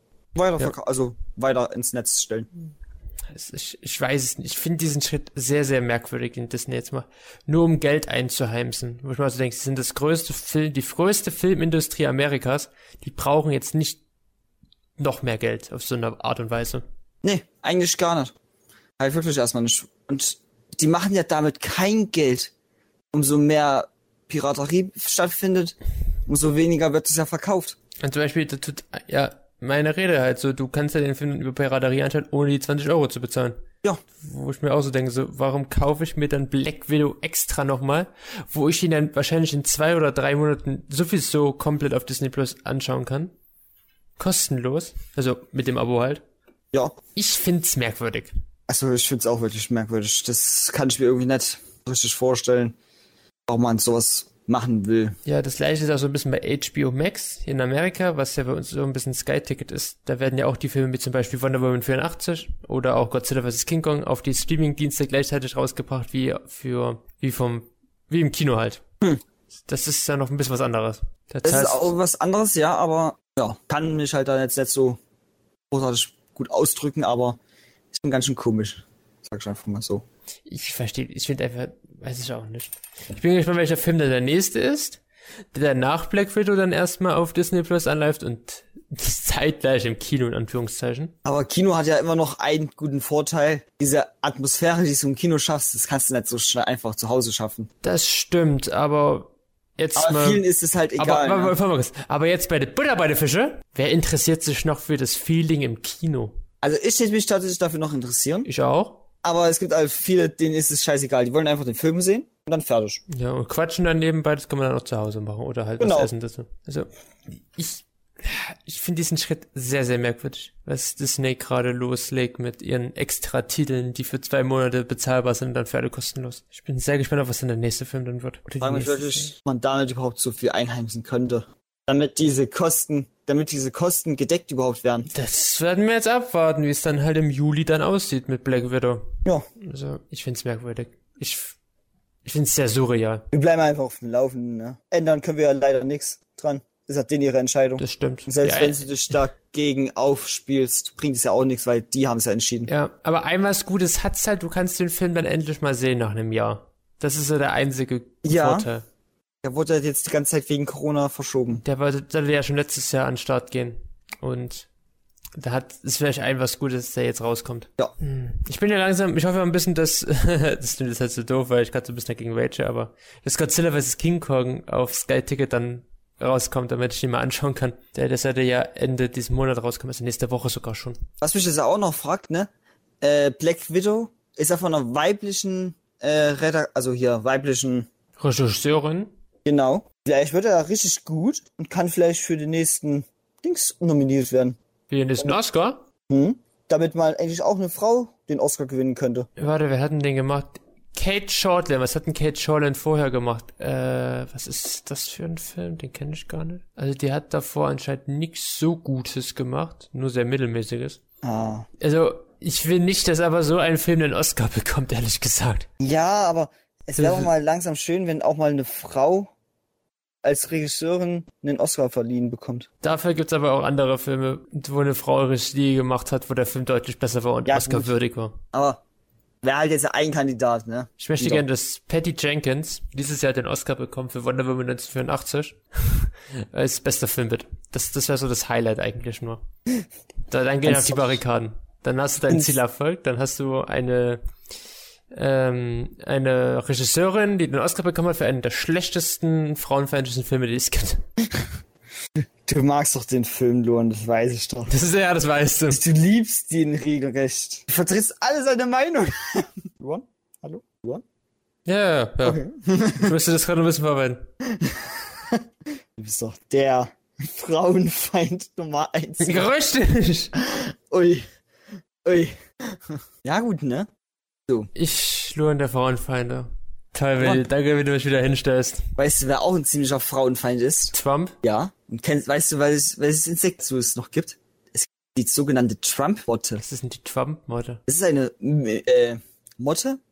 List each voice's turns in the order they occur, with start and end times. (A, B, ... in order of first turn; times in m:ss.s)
0:00.4-0:02.5 A
0:03.3-0:14.0 B
0:15.0-0:16.8 B
0:17.2-0:18.3 A
0:19.0-0:22.5 A
0:23.1-0:25.8 A
0:26.3-0:27.8 A
0:28.0-0:33.6 B
0:34.2-0:43.3 B
0:44.2-0:46.2 B
0:47.2-0:48.3 B
0:48.7-0:52.8 A
0:53.5-0:55.2 A
0:55.2-1:08.8 B
1:09.7-1:11.9 B
1:11.4-1:15.0 A
1:15.7-1:17.4 A
1:17.9-1:20.0 A
1:20.5-1:25.0 B
1:25.5-1:31.1 B
1:31.2-1:37.7 A
1:37.8-1:40.4 B
1:40.0-1:41.6 A
1:41.0-1:46.4 B
1:46.6-1:48.5 A
1:48.5-1:49.0 B
1:49.2-1:53.0 A
1:53.1-1:56.9 B
1:55.8-1:56.1 A
1:57.5-2:09.3 B
2:08.6-2:15.1 A
2:15.1-2:21.6 B
2:22.2-2:23.2 B
2:23.3-2:32.7 A
2:27.8-2:28.8 B
2:32.7-2:38.8 B
2:38.2-2:38.7 A
2:39.4-2:41.6 A
2:41.6-2:44.7 B
2:45.4-3:01.0 B
3:01.2-3:02.5 A
3:03.0-3:07.9 A
3:08.2-3:09.1 B
3:09.4-3:14.6 A
3:14.9-3:15.8 B
3:16.1-3:19.3 A
3:19.4-3:31.0 B
3:31.2-3:31.7 A
3:31.8-3:35.7 B
3:35.8-3:39.3 A
3:37.0-3:37.3 B
3:40.2-3:42.7 A
3:42.8-3:48.4 B
3:47.5-3:47.9 A
3:48.5-3:48.8 A
3:49.4-3:51.4 A
3:51.0-3:59.4 B
4:00.3-4:04.2 B
4:00.6-4:01.2 A
4:05.1-4:11.0 B
4:12.5-4:14.7 A
4:14.7-4:15.8 B
4:15.7-4:21.0 A
4:21.7-4:22.4 B
4:22.2-4:23.1 A
4:22.9-4:24.2 B
4:24.5-4:25.4 A
4:26.0-4:29.5 A
4:29.2-4:30.3 B
4:30.4-4:31.2 A
4:32.0-4:33.9 A
4:34.8-4:38.9 B
4:37.2-4:37.4 A
4:39.0-4:46.6 A
4:40.9-4:41.4 B
4:46.6-4:47.8 B
4:47.9-4:50.0 A